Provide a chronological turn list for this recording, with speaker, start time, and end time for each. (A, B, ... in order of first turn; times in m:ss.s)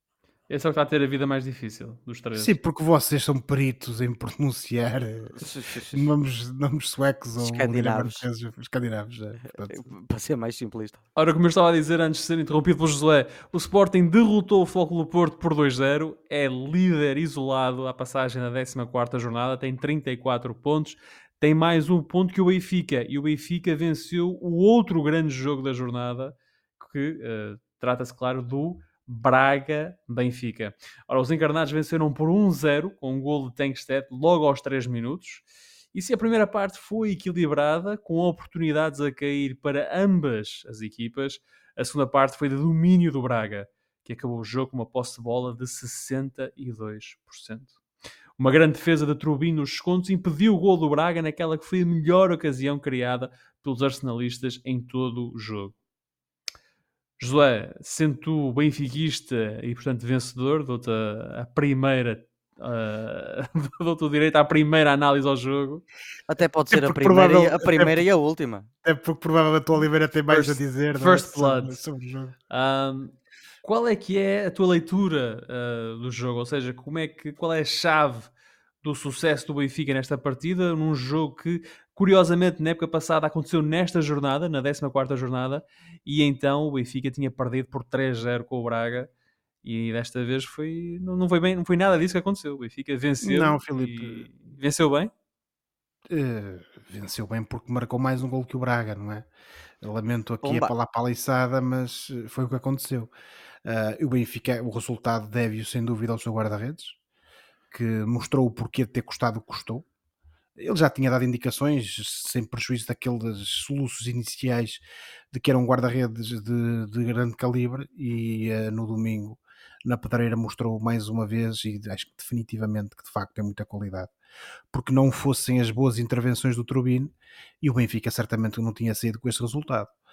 0:00.5-0:02.6 A
0:02.4-0:09.8 B
0:05.4-0:06.0 C
0:07.4-0:08.2 C
0:09.7-0:11.0 C
0:11.2-0:47.7 A
0:48.4-0:55.8 A
0:57.2-1:05.8 A
1:06.3-1:08.7 C
1:06.7-1:08.0 B
1:08.8-1:12.3 B
1:10.3-1:11.8 A
1:12.5-1:18.3 A
1:18.8-1:29.1 A
1:29.6-1:35.1 A
1:33.2-1:34.3 B
1:36.1-1:39.3 B
1:39.8-1:43.1 B
1:40.4-1:40.7 C
1:43.6-1:47.0 B
1:47.7-1:49.9 B
1:50.6-2:04.1 B
2:04.7-2:09.9 B